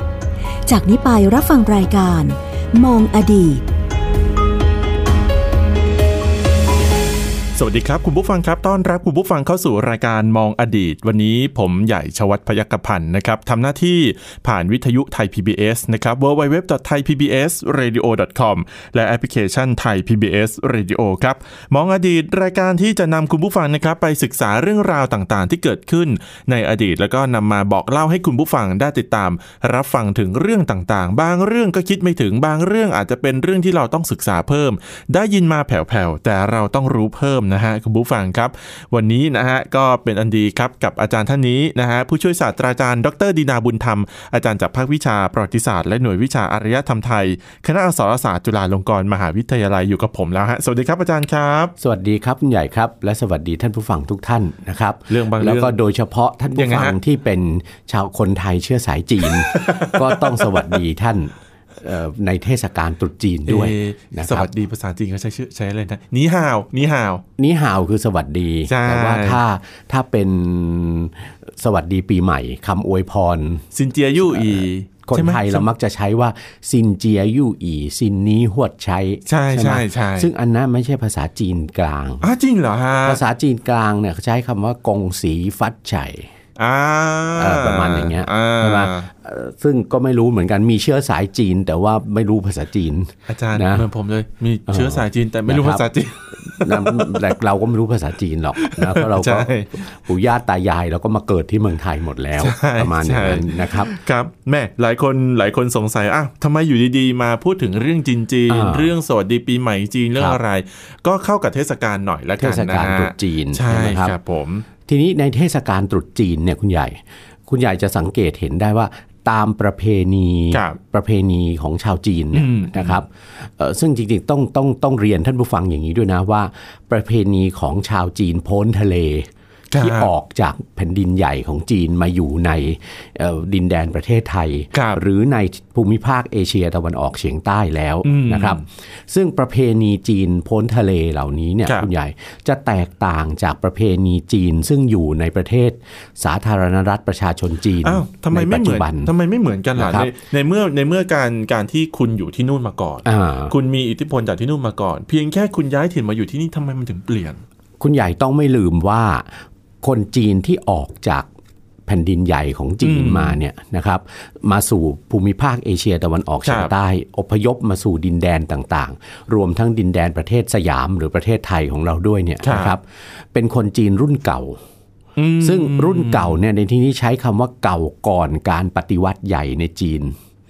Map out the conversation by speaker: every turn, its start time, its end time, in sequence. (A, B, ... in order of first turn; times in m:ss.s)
0:00.6-0:03.6 A
0:07.5-0:51.7 B
0:51.8-1:04.5 C
0:55.1-0:55.7 B
0:56.5-0:57.0 B
0:59.2-1:00.8 B
1:03.5-1:07.2 B
1:07.4-1:13.6 C
1:08.6-1:09.4 B
1:13.7-1:15.7 B
1:14.2-1:22.2 C
1:19.3-1:20.3 B
1:22.2-1:23.2 B
1:23.0-1:26.3 C
1:26.6-1:29.1 B
1:27.4-1:33.8 C
1:33.3-1:37.4 B
1:34.7-1:35.9 C
1:36.5-1:43.9 C
1:38.6-1:39.8 B
1:42.4-1:54.7 B
1:48.5-1:48.9 C
1:52.4-1:54.2 C
1:54.8-2:29.1 C
2:00.5-2:00.8 B
2:02.3-2:03.0 B
2:09.7-2:10.1 B
2:14.7-2:15.0 B
2:18.0-2:18.6 B
2:27.8-2:37.4 B
2:29.8-2:30.1 C
2:33.0-2:33.5 C
2:37.8-2:39.3 C
2:39.8-2:41.3 C
2:41.9-2:54.6 C
2:42.8-2:43.4 B
2:46.4-2:46.7 B
2:52.4-2:52.7 B
2:55.2-2:56.4 B
2:55.4-3:00.1 C